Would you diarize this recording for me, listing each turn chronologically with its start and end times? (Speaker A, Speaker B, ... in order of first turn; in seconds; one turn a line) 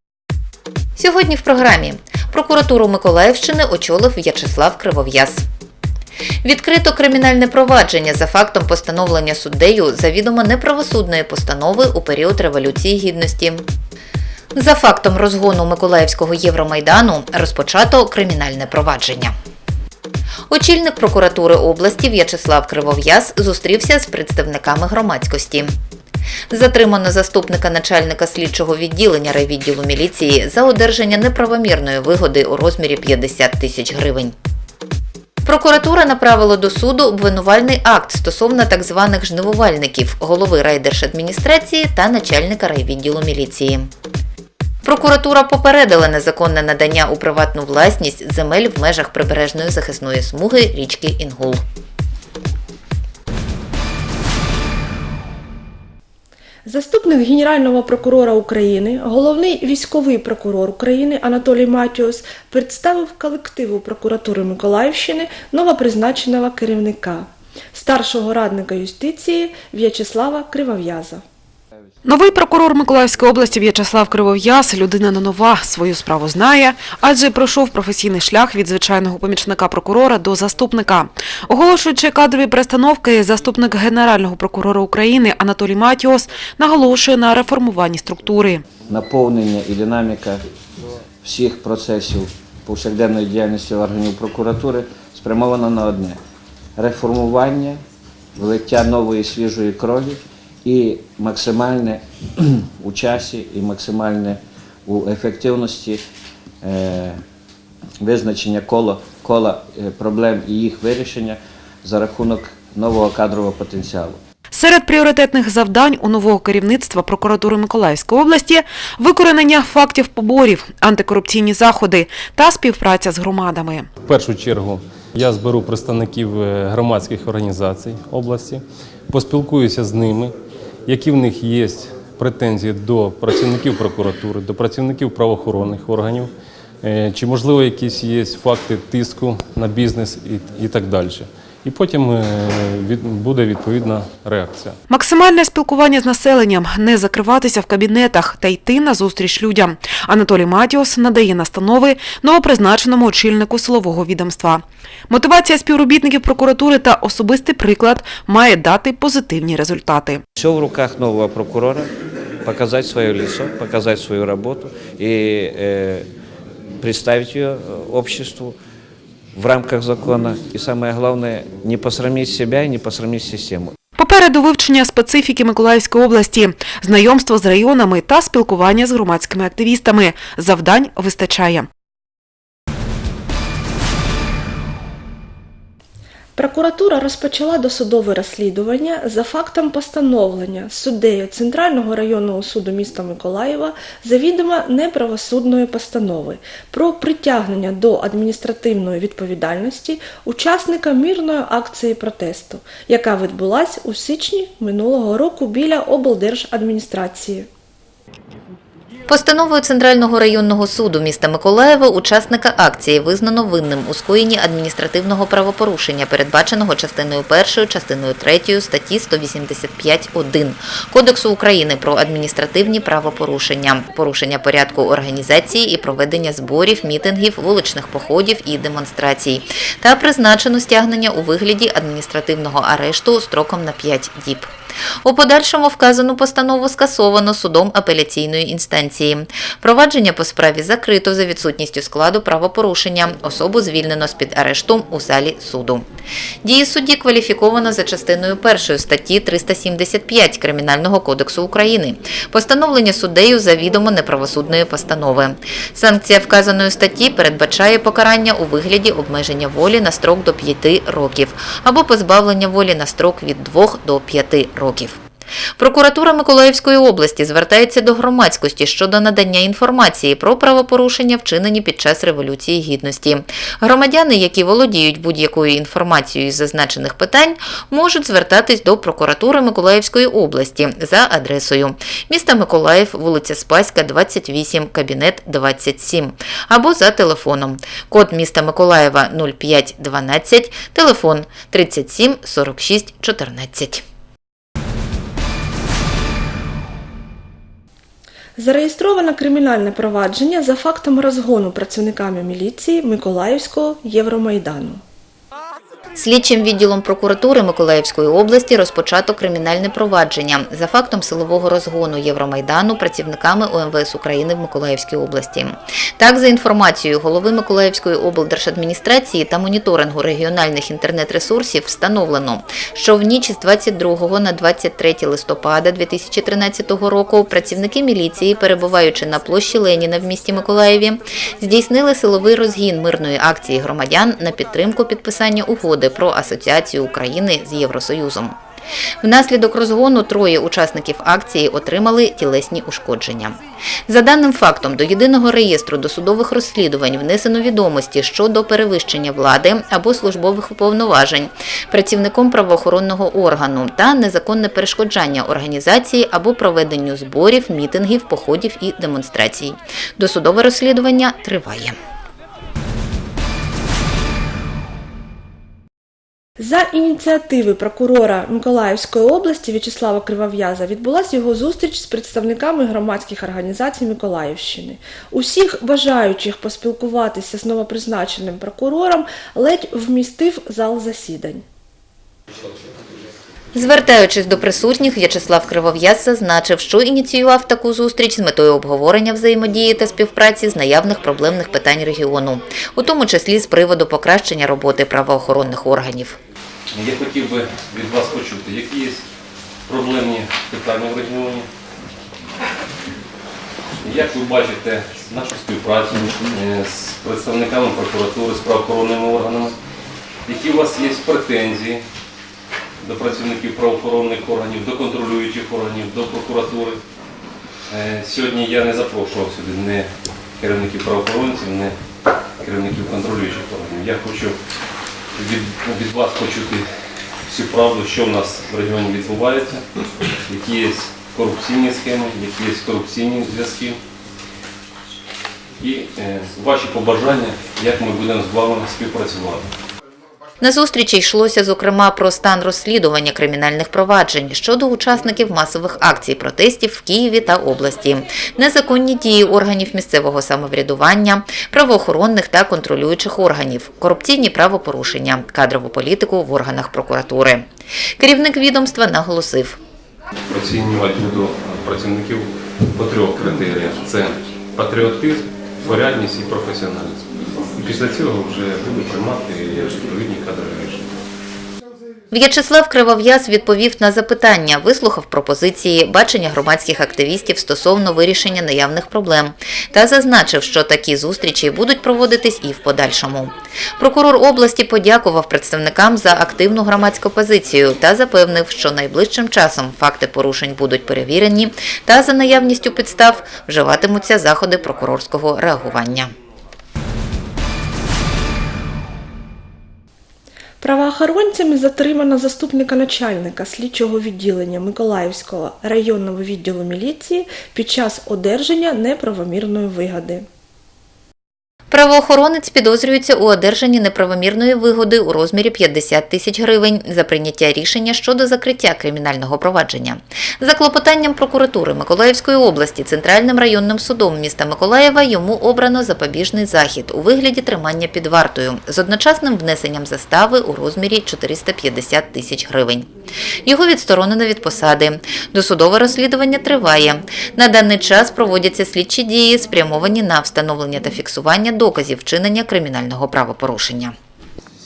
Speaker A: 1.0-5.4
Speaker A: 6.4-13.6
Speaker A: 14.5-19.3
Speaker A: 20.5-25.7
Speaker A: 26.5-34.3
Speaker A: 35.5-43.9
Speaker A: 44.8-51.6
Speaker B: 56.6-71.2
Speaker C: 72.0-88.7
Speaker D: 88.8-90.4
Speaker D: 91.2-96.2
Speaker D: 96.8-97.8
Speaker D: 98.3-106.0
Speaker D: 106.6-107.2
Speaker D: 108.0-114.2
Speaker C: 114.5-123.9
Speaker E: 124.0-130.3
Speaker E: 130.9-136.3
Speaker E: 136.9-144.8
Speaker C: 144.9-160.2
Speaker D: 160.3-161.9
Speaker D: 162.4-166.1
Speaker D: 166.8-168.6
Speaker D: 169.3-173.7
Speaker C: 174.0-181.7
Speaker B: 186.3-207.5
Speaker A: 209.1-234.5
Speaker A: 235.0-245.8
Speaker A: 246.4-265.0
Speaker A: 265.6-293.8
Speaker B: 298.4-304.8
Speaker A: 305.9-338.3
Speaker A: 339.0-343.4
Speaker A: 343.9-361.7
Speaker B: 366.4-381.4
Speaker A: 383.5-396.2
Speaker E: 396.7-399.0
Speaker E: 399.7-401.5
Speaker E: 403.8-409.6
Speaker E: 410.2-411.8
Speaker E: 412.8-416.8
Speaker E: 417.7-421.7
Speaker E: 422.4-424.4
Speaker E: 425.1-426.6
Speaker E: 427.3-429.6
Speaker E: 430.2-433.8
Speaker E: 435.6-439.5
Speaker A: 440.4-457.4
Speaker A: 458.0-459.6
Speaker E: 460.3-470.9
Speaker A: 472.1-496.1
Speaker B: 500.6-510.2
Speaker A: 511.7-532.9
Speaker A: 533.5-543.9